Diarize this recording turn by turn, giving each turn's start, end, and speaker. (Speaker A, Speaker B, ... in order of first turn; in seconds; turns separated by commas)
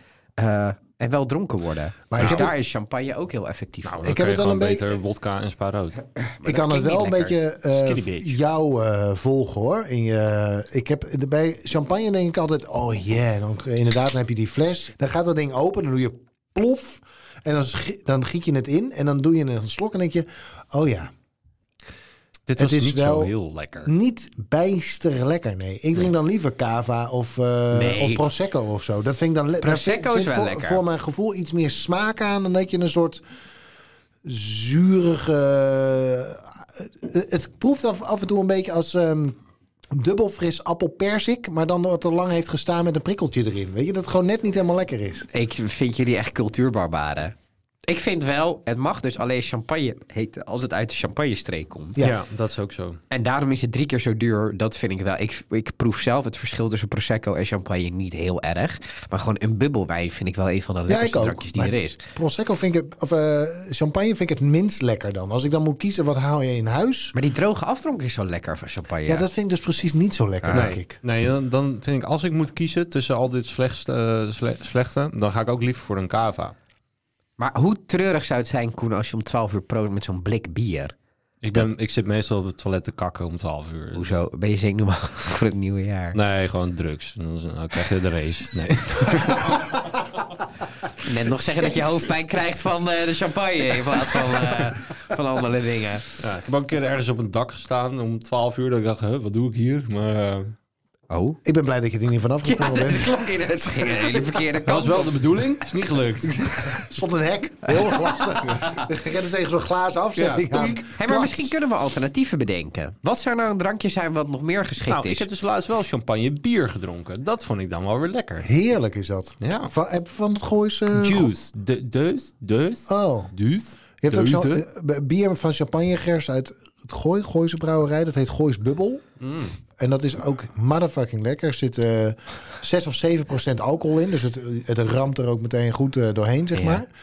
Speaker A: 0.4-4.0, Speaker B: 2.1-2.6, Speaker C: 2.2-2.5, Speaker C: 3.8-6.0, Speaker B: 4.0-5.0, Speaker A: 6.2-7.4, Speaker B: 6.4-21.1, Speaker C: 7.7-8.4, Speaker C: 22.5-23.9, Speaker B: 22.6-23.3, Speaker B: 23.9-33.2, Speaker A: 27.7-28.3, Speaker A: 29.6-30.8, Speaker B: 34.2-39.4, Speaker B: 39.9-45.3, Speaker A: 45.3-47.3, Speaker A: 47.9-52.0, Speaker C: 52.0-53.0, Speaker A: 53.1-62.0, Speaker B: 60.9-67.2, Speaker A: 67.1-69.3, Speaker B: 69.1-71.0, Speaker A: 70.4-70.7, Speaker C: 70.5-76.5, Speaker A: 77.4-80.9, Speaker C: 81.4-84.2, Speaker A: 84.0-86.2, Speaker C: 86.1-89.8, Speaker A: 91.0-96.0, Speaker C: 96.2-100.5, Speaker A: 101.1-101.4, Speaker B: 101.4-103.2, Speaker A: 102.4-105.1, Speaker C: 104.6-106.7, Speaker A: 106.3-106.8, Speaker B: 106.7-111.4, Speaker A: 107.8-108.8, Speaker C: 110.2-111.4, Speaker A: 111.0-115.3, Speaker C: 114.9-118.5, Speaker B: 118.4-121.3, Speaker C: 119.4-119.7, Speaker C: 120.9-124.7, Speaker B: 122.9-123.3, Speaker B: 124.0-129.0, Speaker C: 129.2-129.5, Speaker B: 129.8-136.9, Speaker A: 136.6-136.8